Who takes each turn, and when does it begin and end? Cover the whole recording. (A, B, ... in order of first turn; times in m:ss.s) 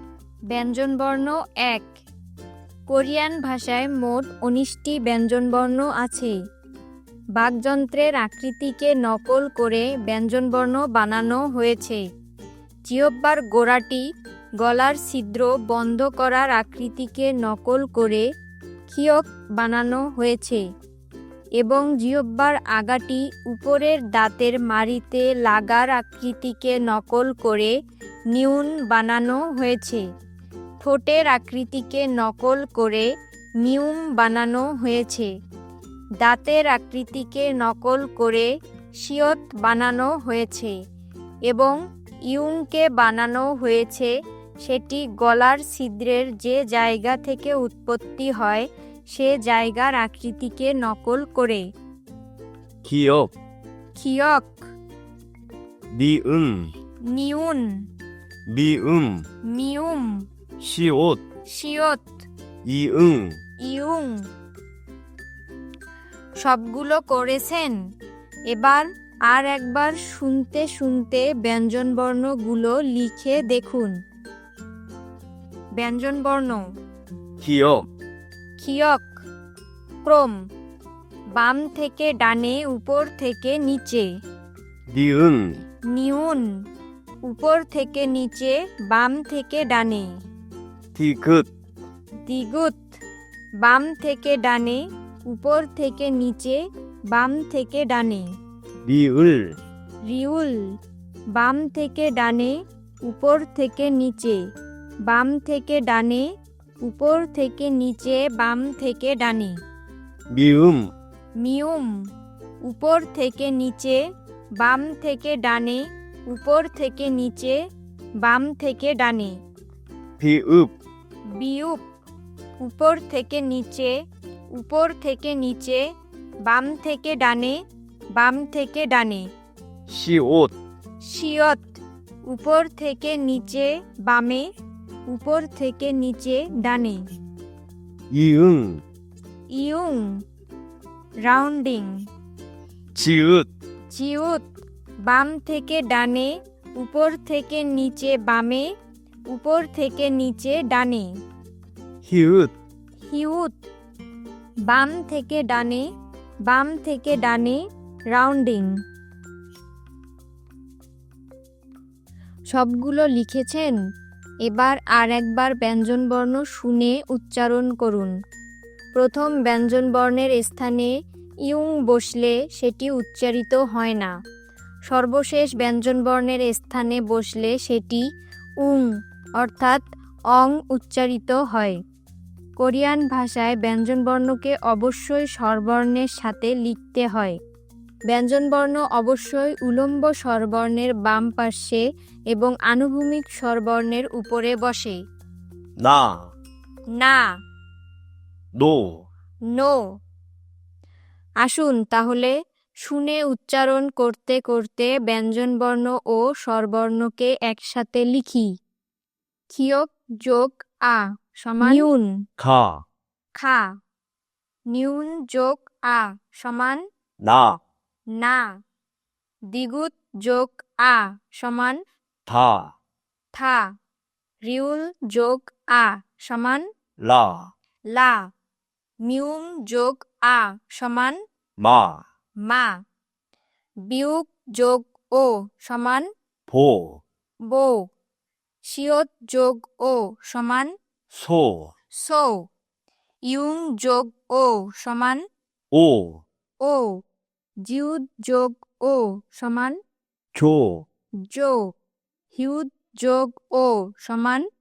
0:00.5-0:01.9 A
0:02.9-0:06.3 A
0:07.4-0:12.0 A
0:12.9-0:14.0 A
0:14.6-0:18.2 A
0:18.9-0:20.6 A
0:21.6-0:27.7 A
0:28.3-0:30.0 A
0:30.8-0:33.1 A
0:33.6-0:35.3 A
0:36.2-0:38.5 A
0:39.0-0:40.7 A
0:41.5-0:41.8 A
0:42.3-0:44.1 A
0:44.6-0:51.6 A
0:52.8-0:53.3 B
0:54.0-0:54.6 A
0:55.9-0:56.6 B
0:57.1-0:57.6 A
0:58.5-0:59.2 B
0:59.5-1:00.1 A
1:00.6-1:01.2 B
1:01.5-1:02.1 A
1:02.6-1:03.4 B
1:03.6-1:04.2 A
1:06.4-1:07.7 A
1:08.5-1:13.9 A
1:15.8-1:16.6 A
1:17.4-1:17.8 B
1:18.6-1:19.1 A
1:20.0-1:20.4 A
1:21.4-1:24.1 A
1:24.9-1:25.6 B
1:25.9-1:26.4 A
1:27.2-1:30.1 A
1:30.9-1:31.4 B
1:32.3-1:32.8 A
1:33.6-1:38.2 A
1:38.8-1:39.5 B
1:40.0-1:40.6 A
1:41.3-1:42.5 A
1:43.0-1:44.4 A
1:45.1-1:46.2 A
1:46.8-1:49.6 A
1:50.3-1:50.8 B
1:51.4-1:51.9 A
1:52.6-1:54.0 A
1:54.6-1:57.6 A
1:58.2-1:59.4 A
2:00.2-2:00.7 B
2:01.4-2:01.8 A
2:02.6-2:03.9 A
2:04.6-2:05.8 A
2:06.4-2:07.6 A
2:08.2-2:09.2 A
2:09.9-2:10.5 B
2:11.0-2:14.4 A
2:15.1-2:17.0 A
2:18.1-2:18.8 B
2:19.5-2:20.1 A
2:21.2-2:21.9 A
2:23.0-2:23.5 B
2:23.9-2:24.4 A
2:25.1-2:28.7 A
2:29.3-2:31.1 A
2:32.0-2:32.5 B
2:33.1-2:33.6 A
2:34.7-2:35.8 A
2:36.5-2:37.6 A
2:38.1-2:38.7 A
2:42.5-2:43.7 A
2:44.4-2:48.1 A
2:48.9-2:50.9 A
2:51.4-2:54.1 A
2:54.9-2:58.0 A
2:58.6-2:58.9 A
2:59.4-2:59.8 A
3:00.3-3:01.8 A
3:02.6-3:07.4 A
3:08.1-3:11.8 A
3:12.3-3:15.0 A
3:15.8-3:16.2 B
3:17.0-3:17.2 A
3:18.6-3:18.8 B
3:21.4-3:22.3 A
3:22.8-3:28.5 A
3:29.5-3:32.1 A
3:32.4-3:32.8 B
3:33.4-3:33.7 A
3:34.7-3:36.8 A
3:37.2-3:37.6 B
3:38.2-3:38.5 A
3:39.5-3:41.8 A
3:42.3-3:42.7 B
3:43.3-3:43.7 A
3:44.4-3:46.7 A
3:47.0-3:47.5 B
3:47.9-3:48.3 A
3:49.0-3:51.2 A
3:51.6-3:52.0 B
3:52.4-3:52.8 A
3:53.9-3:56.1 A
3:56.5-3:57.0 B
3:57.5-3:57.9 A
3:58.6-4:00.7 A
4:01.1-4:01.7 B
4:02.0-4:02.4 A
4:03.3-4:05.2 A
4:05.7-4:06.2 B
4:06.6-4:07.0 A
4:07.6-4:09.8 A
4:10.3-4:10.8 B
4:11.3-4:11.7 A
4:12.3-4:14.4 A